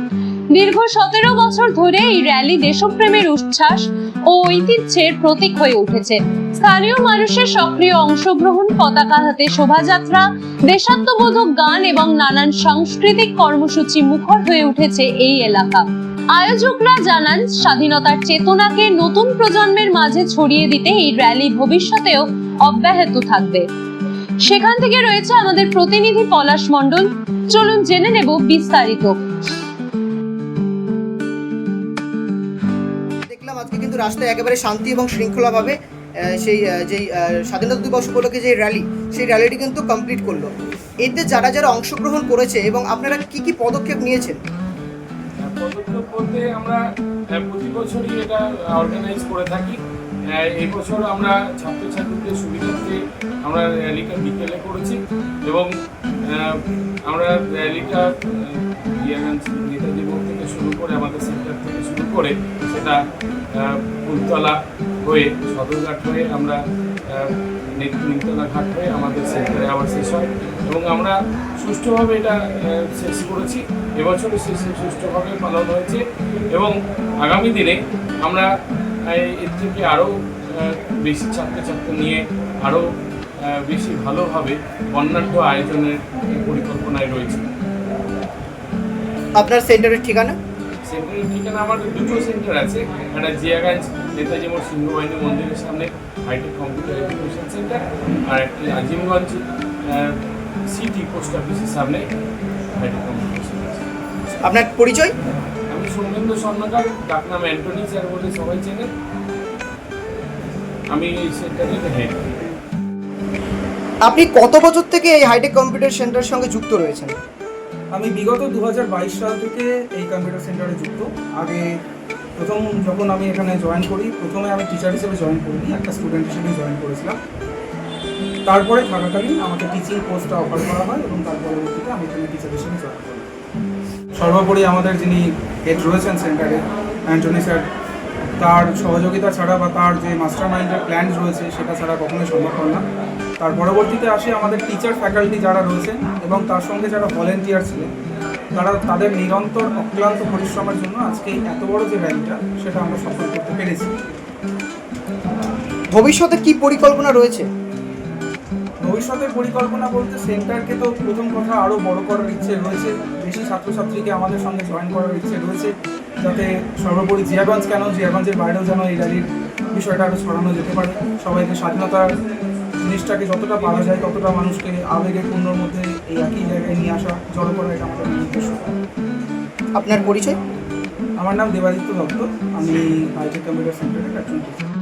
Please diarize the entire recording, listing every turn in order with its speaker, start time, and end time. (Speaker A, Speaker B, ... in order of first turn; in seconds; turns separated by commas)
Speaker A: 0.5-23.6, Speaker A: 24.4-29.2, Speaker B: 33.3-44.4, Speaker C: 45.4-46.8, Speaker C: 47.4-49.8, Speaker C: 50.3-55.7, Speaker C: 56.2-63.0, Speaker C: 63.5-78.5, Speaker C: 79.1-82.8, Speaker C: 83.4-87.5, Speaker B: 89.3-90.4, Speaker C: 90.9-102.0, Speaker C: 102.7-103.9, Speaker B: 104.4-105.1, Speaker C: 105.7-108.9, Speaker C: 110.9-112.4, Speaker B: 114.0-117.1, Speaker D: 117.9-121.7, Speaker D: 122.4-127.2, Speaker D: 128.5-133.3, Speaker D: 134.2-137.7, Speaker D: 138.4-142.8, Speaker D: 143.4-147.9, Speaker D: 148.5-153.9, Speaker B: 155.9-157.5, Speaker D: 158.8-172.1, Speaker D: 172.8-178.7, Speaker B: 179.8-180.4, Speaker D: 181.2-184.6